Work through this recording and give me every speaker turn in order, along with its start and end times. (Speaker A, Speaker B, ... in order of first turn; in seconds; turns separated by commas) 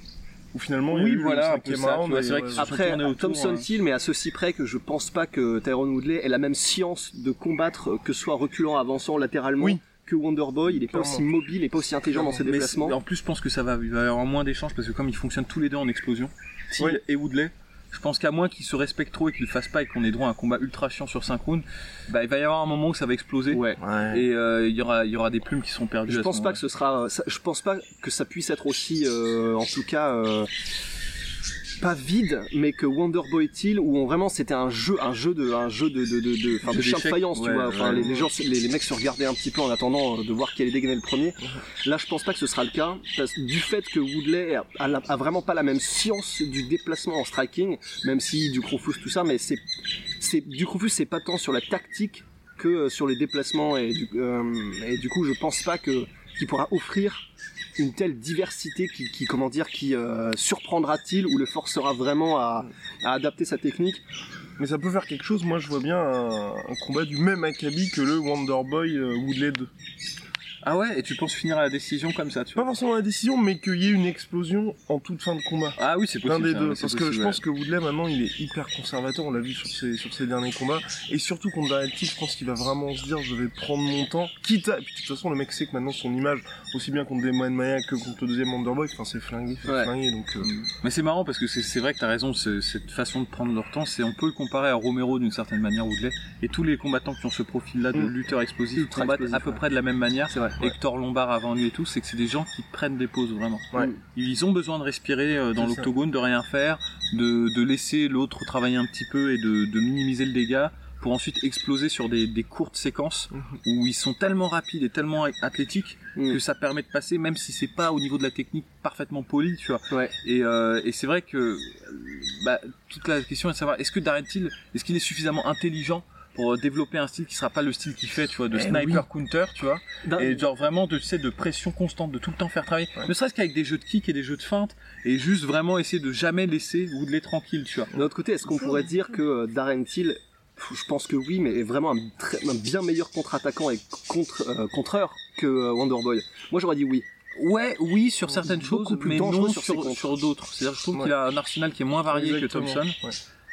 Speaker A: 0.5-2.7, Speaker B: 0.9-3.7, Speaker C: 2.6-13.0, Speaker A: 9.6-9.9, Speaker A: 10.7-11.3, Speaker A: 12.2-12.5, Speaker B: 12.4-26.6, Speaker C: 23.5-23.8, Speaker A: 23.8-24.2, Speaker C: 26.1-30.5, Speaker C: 31.8-49.6, Speaker B: 36.7-38.1, Speaker A: 37.8-38.3, Speaker C: 50.2-57.3, Speaker C: 57.8-64.0, Speaker A: 64.6-69.7, Speaker B: 70.6-72.7, Speaker A: 72.6-90.5, Speaker B: 75.8-77.4, Speaker C: 89.6-89.9, Speaker B: 90.4-137.9, Speaker C: 98.8-99.6, Speaker C: 100.3-100.7, Speaker A: 105.6-105.9, Speaker A: 113.3-113.6, Speaker C: 119.9-120.1, Speaker A: 128.5-129.0, Speaker C: 130.0-130.4, Speaker C: 138.0-147.0, Speaker B: 147.3-153.0, Speaker A: 148.3-149.1, Speaker C: 149.0-150.1, Speaker A: 152.1-153.2